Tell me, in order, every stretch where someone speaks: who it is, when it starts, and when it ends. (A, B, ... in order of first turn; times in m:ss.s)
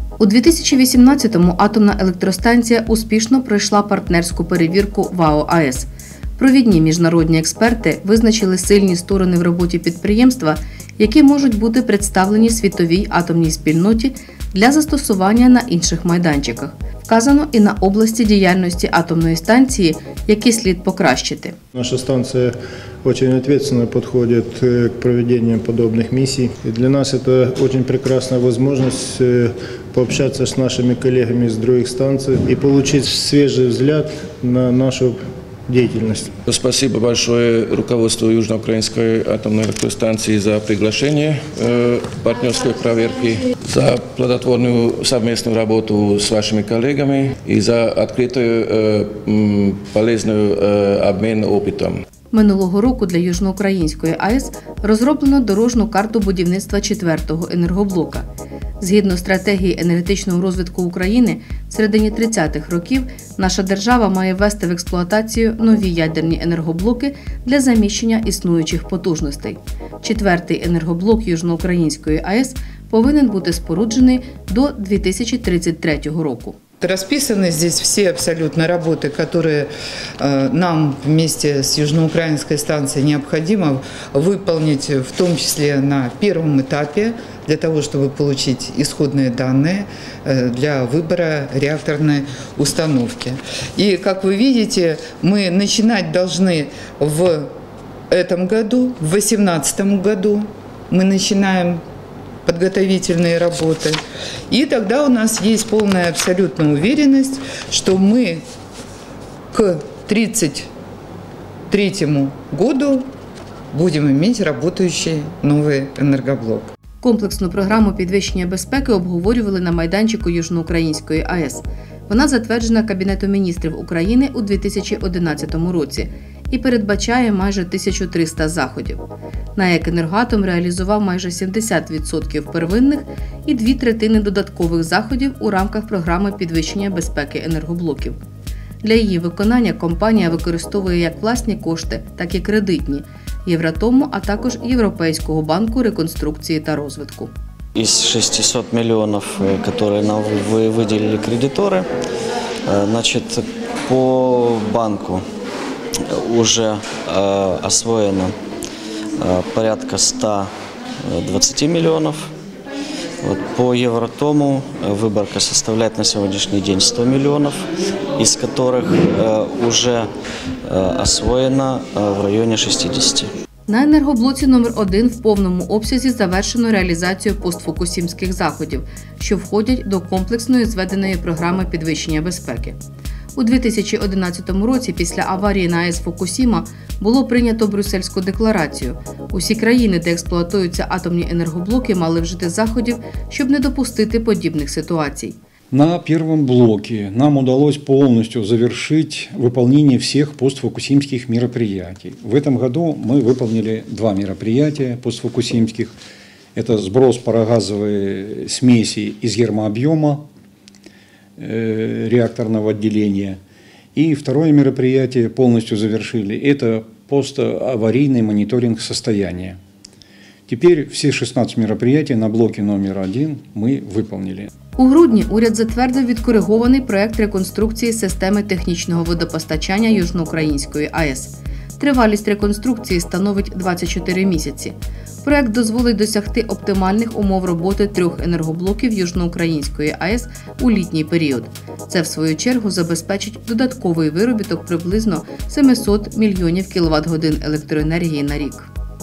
0:00.2-0:21.6 A
0:21.8-0:36.3 B
0:36.5-0:52.0 C
0:52.3-0:58.3 A
0:58.8-1:16.6 A
1:16.8-1:37.5 D
1:38.1-1:41.8 D
1:42.4-1:44.0 D
1:44.5-1:48.4 D
1:49.5-1:50.7 D
1:51.7-1:53.1 D
1:53.7-1:56.7 D
1:57.0-2:09.0 A
2:09.6-2:18.2 A
2:18.8-2:27.3 A
2:27.8-2:31.9 E
2:32.7-2:35.2 E
2:36.1-2:38.3 E
2:39.2-2:40.5 E
2:41.0-2:42.3 E
2:43.2-2:47.6 E
2:48.2-2:50.1 E
2:50.6-2:53.3 E
2:53.7-3:02.8 A
3:03.4-3:15.4 A
3:15.7-3:25.9 F
3:26.6-3:30.3 F
3:31.4-3:33.4 F
3:34.0-3:39.6 F
3:40.5-3:44.5 F
3:44.8-4:08.7 A